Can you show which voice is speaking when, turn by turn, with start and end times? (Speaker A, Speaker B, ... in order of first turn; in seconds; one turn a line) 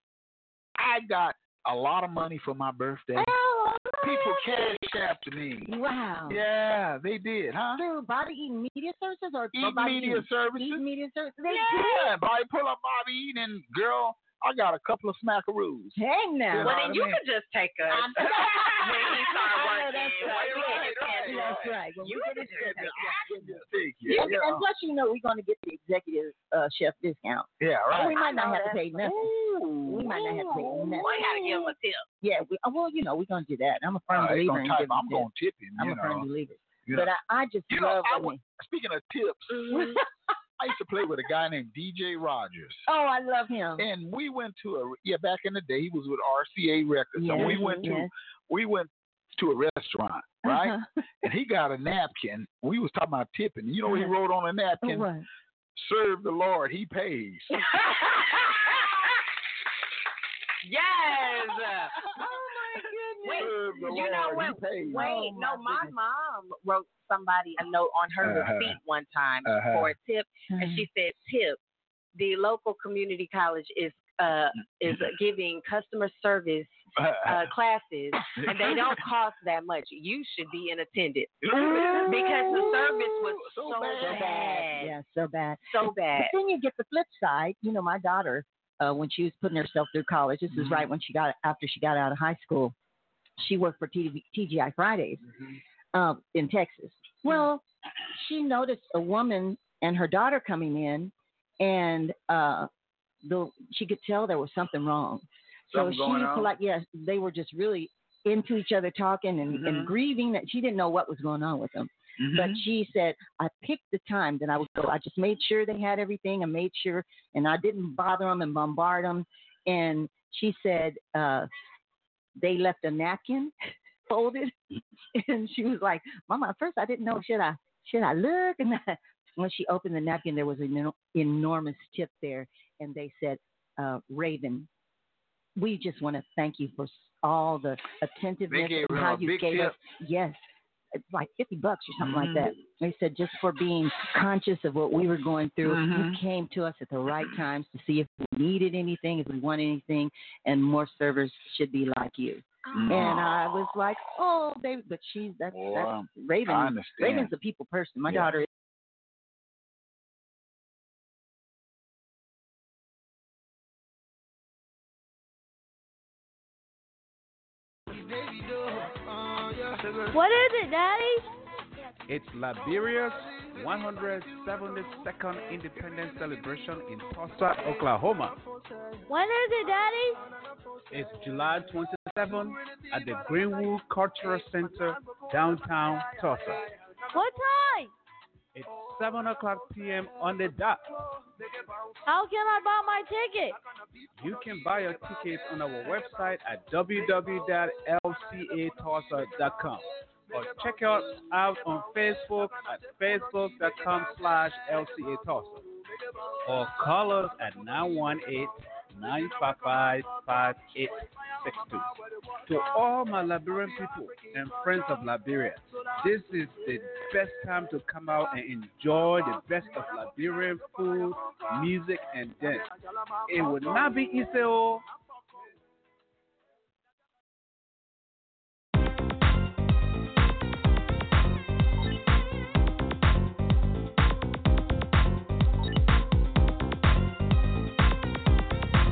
Speaker A: 0.8-3.3
Speaker B: 3.2-4.8
Speaker A: 4.0-5.7
Speaker B: 5.7-6.4
Speaker A: 6.3-7.8
Speaker B: 7.8-12.2
Speaker A: 9.5-10.8
Speaker A: 11.5-17.2
Speaker B: 16.0-16.8
Speaker C: 16.6-23.2
Speaker B: 17.9-29.3
Speaker A: 18.7-24.6
Speaker A: 27.6-28.2
Speaker C: 28.1-28.9
Speaker A: 29.0-31.6
Speaker B: 29.9-31.7
Speaker C: 30.8-32.0
Speaker B: 32.2-38.4
Speaker A: 34.1-36.3
Speaker A: 36.9-37.1
Speaker A: 37.7-39.9
Speaker C: 39.6-40.0
Speaker B: 39.6-40.0
Speaker A: 40.6-42.8
Speaker B: 42.9-43.9
Speaker A: 43.8-55.1
Speaker B: 47.2-48.1
Speaker C: 47.4-47.9
Speaker B: 50.5-50.9
Speaker B: 53.9-54.1
Speaker B: 54.8-55.3
Speaker A: 55.8-57.6
Speaker C: 57.7-58.6
Speaker C: 60.6-61.9
Speaker B: 62.0-66.0
Speaker C: 63.2-71.6
Speaker A: 63.3-65.2
Speaker A: 68.2-68.8
Speaker A: 69.5-70.0
Speaker B: 70.5-70.8
Speaker C: 72.2-85.0
Speaker A: 77.0-77.5
Speaker A: 78.4-78.9
Speaker A: 81.5-84.6
Speaker B: 84.1-85.6
Speaker C: 85.7-86.3
Speaker B: 86.2-92.7
Speaker A: 90.5-90.9
Speaker B: 93.4-95.2
Speaker B: 95.9-97.6
Speaker B: 98.2-102.7
Speaker B: 103.2-121.5
Speaker A: 105.7-106.5
Speaker A: 109.5-109.9
Speaker A: 112.2-112.6
Speaker B: 122.4-123.5
Speaker B: 124.1-124.5
Speaker B: 125.2-134.7
Speaker B: 135.6-140.4
Speaker A: 138.5-139.8
Speaker B: 141.0-158.5
Speaker A: 142.0-142.5
Speaker A: 145.6-146.2
Speaker A: 152.7-153.3
Speaker A: 155.5-157.3
Speaker D: 170.1-171.3
Speaker E: 172.1-178.4
Speaker D: 179.1-180.2
Speaker E: 180.9-186.6
Speaker D: 187.1-187.9
Speaker E: 188.6-190.8
Speaker D: 192.1-193.6
Speaker E: 194.2-205.7
Speaker E: 206.4-211.9
Speaker E: 212.5-222.7
Speaker E: 223.3-224.8